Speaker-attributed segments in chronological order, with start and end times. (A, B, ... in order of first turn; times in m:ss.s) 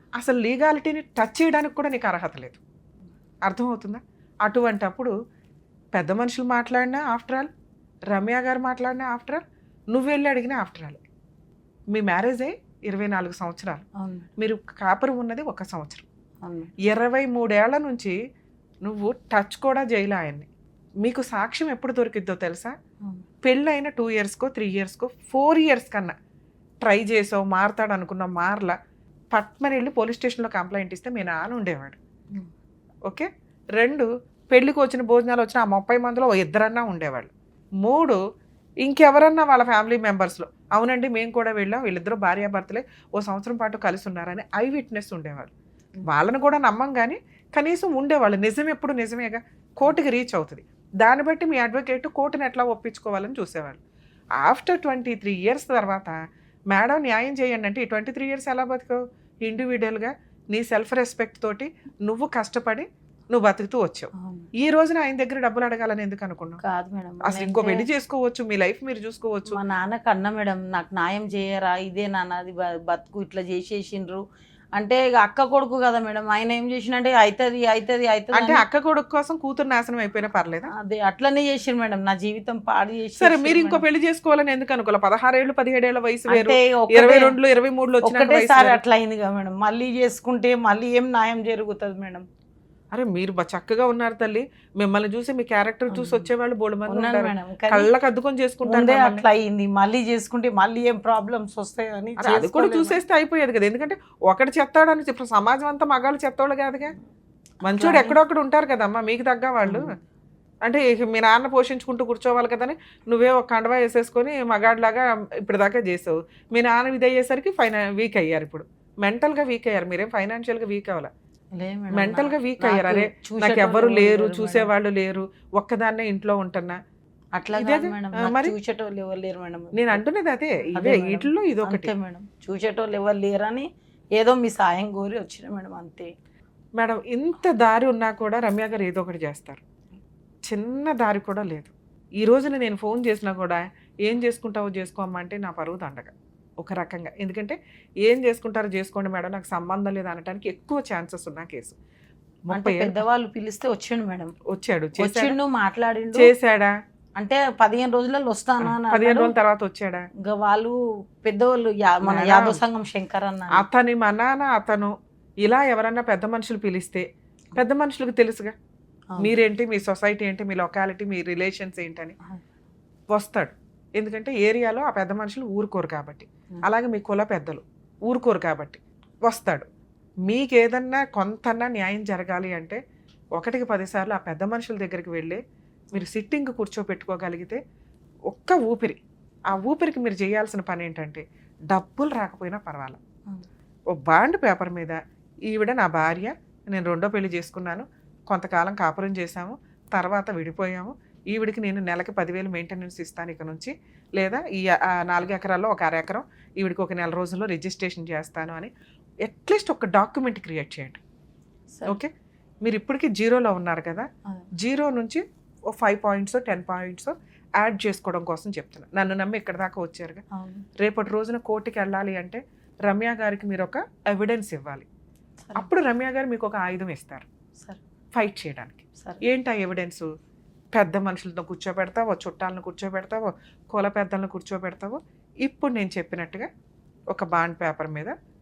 0:00.2-0:02.6 A
0:03.4-0:05.1 A
0:05.9-0:07.5 A
0:08.1-0:11.0 A
0:11.9-0:13.8 A
0:14.0-0:14.3 B
0:14.4-0:16.0 A
0:16.4-0:16.7 B
0:16.8-0:18.2 A
0:18.8-0:20.5 A
0:21.0-0:22.8 A
0:23.4-0:26.1 A
0:26.8-0:28.8 A
0:29.3-0:32.0 A
0:33.0-0:38.2 A
0:38.8-0:45.5 A
0:46.0-0:53.8 A
0:54.4-0:56.2 A
0:56.7-1:06.6 A
1:04.1-1:04.5 B
1:06.6-1:07.9 B
1:07.2-1:09.6 A
1:09.5-1:14.2 B
1:14.8-1:18.6 B
1:18.3-1:20.7 A
1:20.7-1:23.8 B
1:23.2-1:28.8 A
1:26.3-1:27.4 B
1:28.0-1:32.2 B
1:32.9-1:39.2 A
1:35.9-1:36.3 B
1:36.9-1:37.9 B
1:38.6-1:43.0 B
1:42.2-1:46.9 A
1:47.6-1:48.2 B
1:47.6-1:49.9 A
1:49.6-1:50.0 B
1:50.6-2:01.1 A
2:01.6-2:04.7 B
2:01.9-2:06.8 A
2:07.4-2:10.0 B
2:07.6-2:08.5 A
2:09.7-2:11.9 A
2:10.7-2:16.1 B
2:16.8-2:19.6 A
2:20.4-2:31.8 A
2:32.5-2:33.0 A
2:32.5-2:34.3 B
2:34.5-2:35.4 A
2:35.0-2:36.3 B
2:36.1-2:36.7 A
2:37.2-2:39.3 B
2:38.6-2:40.1 A
2:40.2-2:43.6 B
2:42.0-2:42.6 A
2:43.5-2:48.5 A
2:49.2-2:52.2 A
2:53.1-2:59.7 A
3:00.2-3:02.8 A
3:03.3-3:05.4 A
3:05.9-3:07.6 A
3:08.3-3:13.0 A
3:13.9-3:28.7 A
3:29.2-3:31.0 A
3:31.8-3:40.2 A
3:40.3-3:40.6 B
3:40.8-3:44.9 A
3:45.6-3:47.3 A
3:48.1-3:50.1 A
3:49.0-3:49.2 B
3:50.7-3:56.5 A
3:57.1-3:58.1 A